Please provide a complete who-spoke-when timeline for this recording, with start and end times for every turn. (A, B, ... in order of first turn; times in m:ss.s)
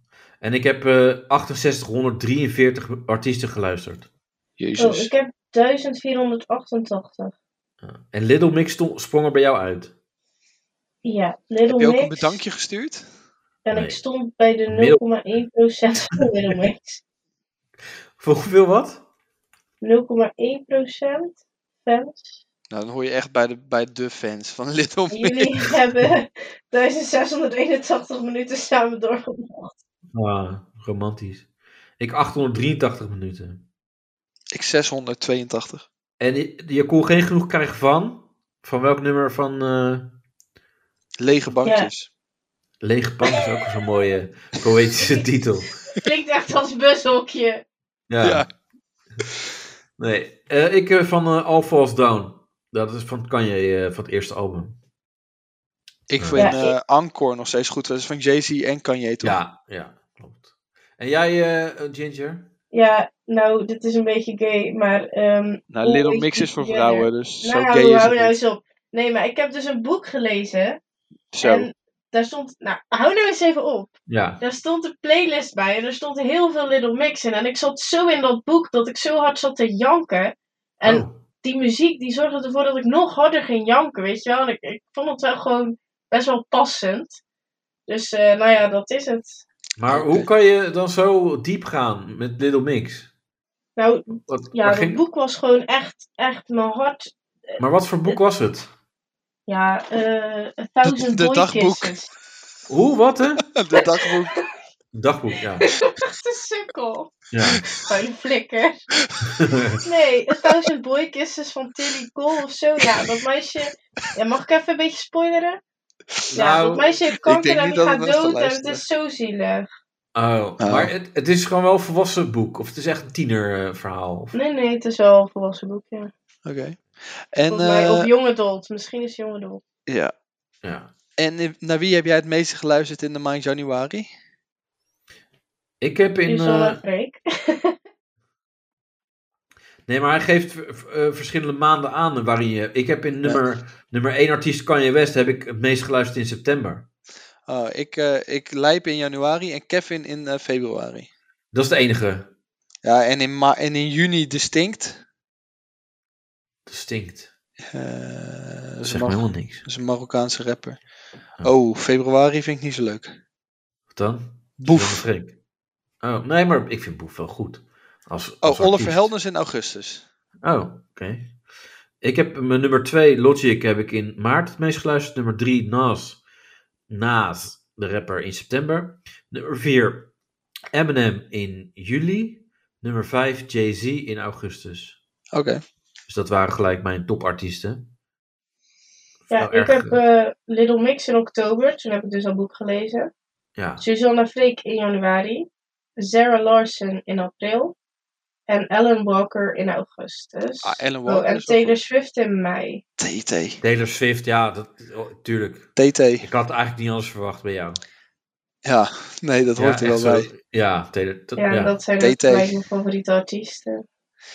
0:00.4-0:04.1 A
0:04.6-0:05.1 B
0:04.8-0:07.3 C
0:07.8-0:09.9 A
0:11.0-0:12.4 C
0:11.7-0:13.1 B
0:13.6-0:17.0 C
0:13.7-0:14.0 A
0:14.7-0:15.0 A
0:18.2-0:19.0 A
0:19.8-0:22.4 C
0:22.7-0:26.1 B
0:25.1-0:29.7 C
0:30.1-0:31.4 A
0:32.0-0:33.6 A
0:34.5-0:35.8 B
0:36.2-0:40.1 A
0:41.2-0:42.1 B
0:41.6-0:41.9 C
0:42.8-0:45.7 A
0:45.9-0:47.6 C
0:48.1-0:48.4 A
0:48.2-0:48.5 B
0:50.0-0:54.7 A
0:56.1-0:59.4 B
0:56.2-0:56.6 A
0:56.4-0:56.7 C
0:59.2-1:02.5 A
1:02.7-1:10.8 C
1:05.7-1:08.4 B
1:11.3-1:11.7 B
1:11.4-1:27.2 C
1:14.1-1:14.4 A
1:20.8-1:21.2 A
1:27.9-1:29.4 C
1:29.8-1:33.1 A
1:29.9-1:30.3 B
1:33.8-1:38.2 C
1:34.2-1:35.0 A
1:37.6-1:38.7 A
1:39.5-1:42.1 C
1:40.8-1:41.9 B
1:42.7-1:43.4 A
1:43.5-1:44.4 B
1:43.8-1:44.5 C
1:44.9-1:45.7 A
1:45.6-1:48.8 C
1:47.3-1:47.7 A
1:49.2-1:49.8 A
1:49.8-1:55.6 C
1:56.3-1:56.9 A
1:56.3-1:59.7 C
1:57.1-1:58.8 B
2:00.1-2:04.3 A
2:00.6-2:00.9 B
2:04.3-2:06.1 C
2:06.4-2:08.1 B
2:07.5-2:09.6 C
2:09.9-2:10.1 B
2:10.6-2:10.9 A
2:11.2-2:14.1 B
2:15.8-2:16.8 A
2:16.2-2:17.7 C
2:19.9-2:26.8 A
2:27.5-2:31.1 B
2:31.5-2:32.3 A
2:32.8-2:35.0 B
2:36.6-2:37.3 A
2:37.6-2:40.8 B
2:38.8-2:39.6 A
2:41.4-2:43.2 B
2:43.9-2:45.3 A
2:44.6-2:45.0 B
2:46.0-2:49.1 A
2:48.4-2:50.0 B
2:50.4-2:51.3 A
2:52.0-2:56.2 A
2:56.9-3:00.1 A
3:00.7-3:05.0 A
3:05.3-3:05.6 B
3:06.1-3:07.9 A
3:09.3-3:10.0 A
3:09.3-3:13.1 C
3:13.6-3:13.8 A
3:13.8-3:17.8 C
3:18.5-3:22.8 C
3:20.6-3:21.8 B
3:23.0-3:23.6 B
3:23.6-3:25.7 A
3:25.8-3:26.2 B
3:26.2-3:27.8 A
3:28.6-3:30.3 B
3:29.6-3:31.8 A
3:31.4-3:33.8 C
3:32.0-3:32.5 B